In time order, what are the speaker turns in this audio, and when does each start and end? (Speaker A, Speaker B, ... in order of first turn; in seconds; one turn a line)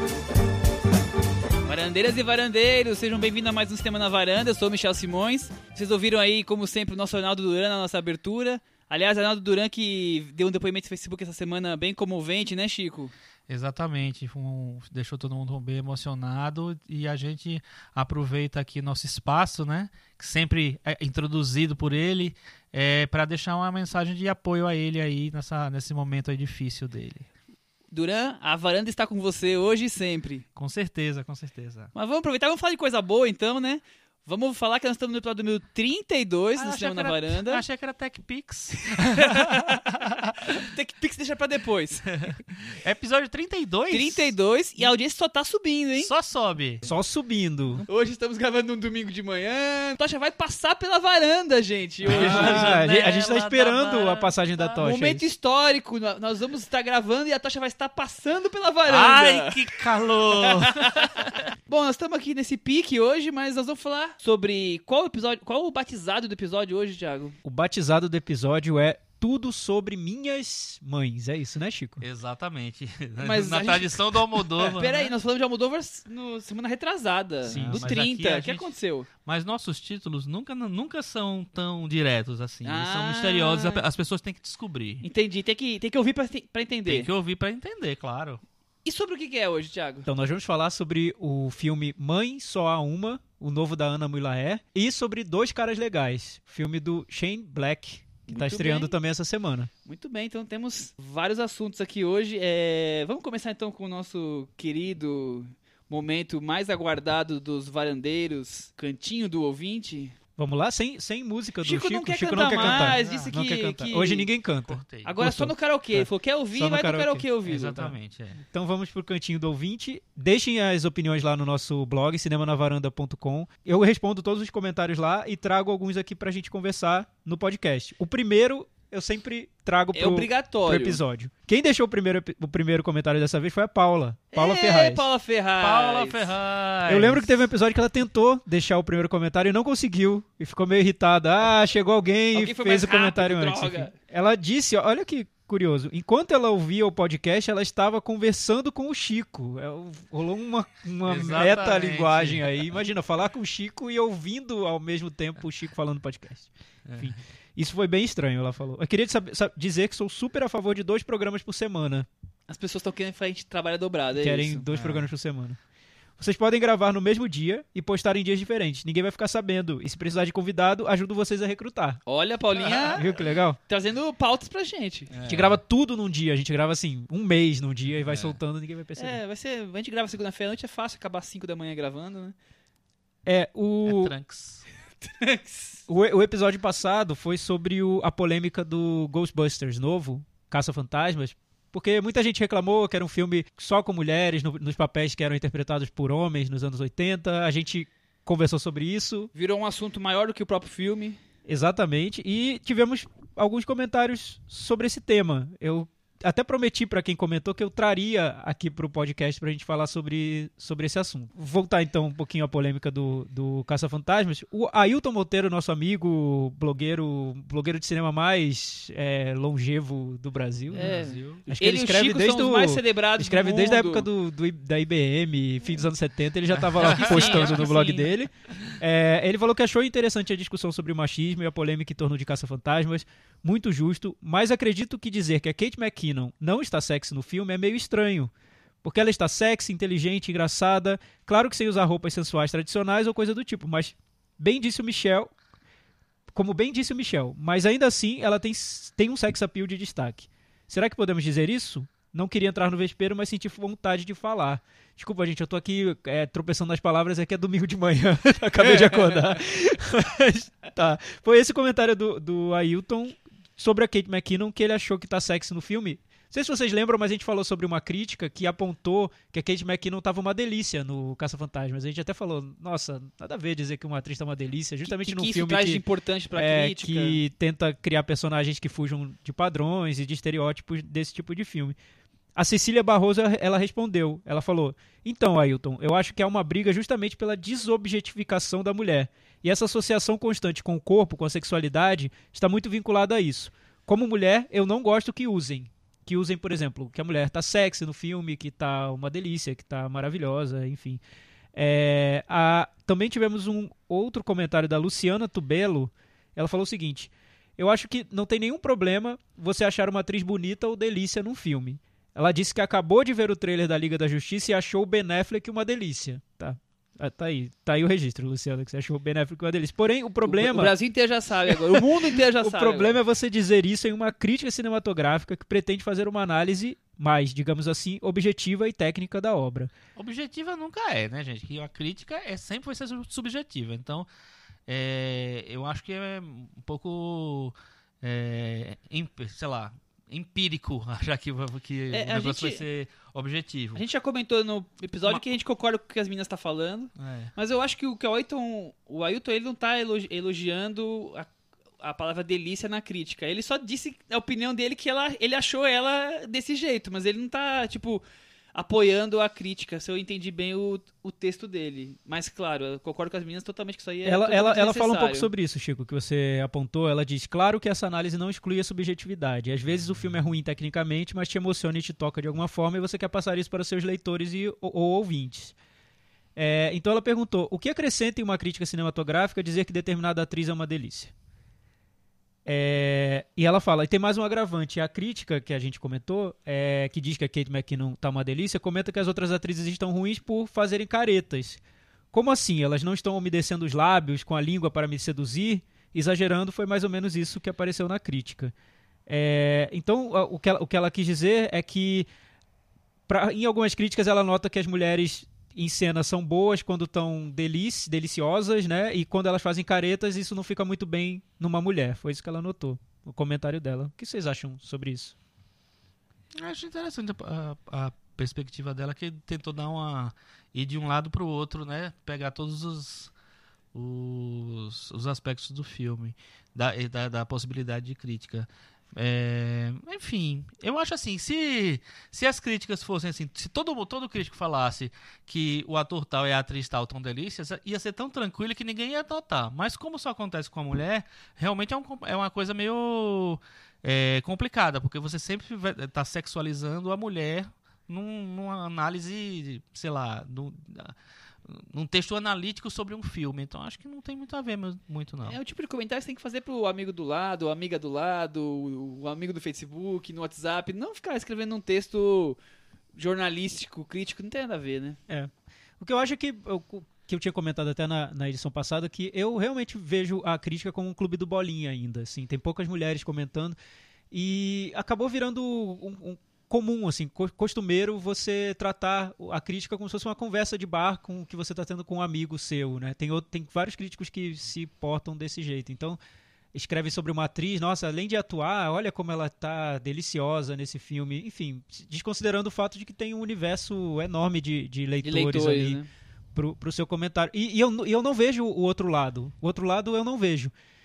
Speaker A: 1.6-13.1
Speaker B: 13.5-27.3
Speaker A: 27.9-30.4
Speaker B: 30.6-31.9
Speaker A: 31.9-37.6
Speaker B: 36.5-40.6
Speaker A: 38.8-39.8
Speaker A: 40.4-42.2
Speaker B: 42.0-44.3
Speaker A: 43.9-46.1
Speaker B: 46.0-46.8
Speaker C: 46.8-47.8
Speaker A: 47.8-52.9
Speaker B: 52.0-54.8
Speaker C: 52.0-55.3
Speaker A: 54.8-59.6
Speaker B: 58.9-61.4
Speaker A: 60.4-67.3
Speaker C: 67.4-72.0
Speaker B: 72.0-75.1
Speaker A: 73.2-79.1
Speaker B: 77.4-85.0
Speaker C: 77.5-77.9
Speaker A: 82.6-83.8
Speaker A: 85.0-87.1
Speaker B: 86.8-88.4
Speaker A: 88.8-90.1
Speaker C: 90.0-99.7
Speaker A: 98.3-98.9
Speaker A: 99.8-110.1
Speaker C: 110.4-117.2
Speaker A: 111.6-114.3
Speaker B: 112.5-113.3
Speaker B: 114.6-115.1
Speaker A: 115.0-117.8
Speaker B: 117.4-118.4
Speaker C: 117.8-135.0
Speaker A: 129.9-131.0
Speaker A: 134.3-136.2
Speaker B: 135.6-137.3
Speaker C: 136.9-162.1
Speaker A: 142.3-143.9
Speaker B: 151.0-152.4
Speaker B: 156.8-157.2
Speaker A: 162.5-164.7
Speaker C: 164.1-165.6
Speaker B: 164.7-165.1
Speaker C: 166.2-172.0
Speaker A: 172.1-173.1
Speaker B: 172.7-173.0
Speaker C: 172.9-173.6
Speaker A: 173.7-175.1
Speaker B: 175.1-175.6
Speaker C: 175.3-179.2
Speaker B: 178.0-178.3
Speaker A: 179.0-182.3
Speaker C: 183.2-184.1
Speaker B: 183.8-184.6
Speaker A: 185.0-185.8
Speaker C: 185.9-199.3
Speaker A: 199.3-201.2
Speaker C: 201.4-238.3
Speaker B: 220.7-221.4
Speaker A: 220.8-224.1
Speaker B: 226.6-227.7
Speaker A: 226.8-228.1
Speaker C: 238.8-245.3
Speaker C: 246.3-275.8
Speaker A: 274.9-277.2
Speaker C: 276.3-281.8
Speaker C: 282.4-301.0
Speaker C: 301.5-320.7
Speaker A: 320.2-323.0
Speaker C: 321.5-329.7
Speaker B: 329.9-334.1
Speaker B: 334.7-343.8
Speaker A: 341.9-342.6
Speaker A: 343.7-365.3
Speaker B: 347.0-347.3
Speaker C: 364.0-375.5
Speaker C: 376.4-381.1
Speaker C: 382.4-391.6
Speaker C: 392.1-398.5
Speaker C: 399.1-402.1
Speaker C: 403.1-415.1
Speaker B: 416.4-423.1
Speaker B: 423.7-450.9
Speaker B: 451.4-455.4
Speaker A: 455.2-462.4
Speaker A: 462.9-465.0
Speaker C: 465.1-473.6
Speaker C: 474.1-486.0
Speaker C: 486.5-495.8
Speaker A: 495.0-495.9
Speaker C: 496.3-500.5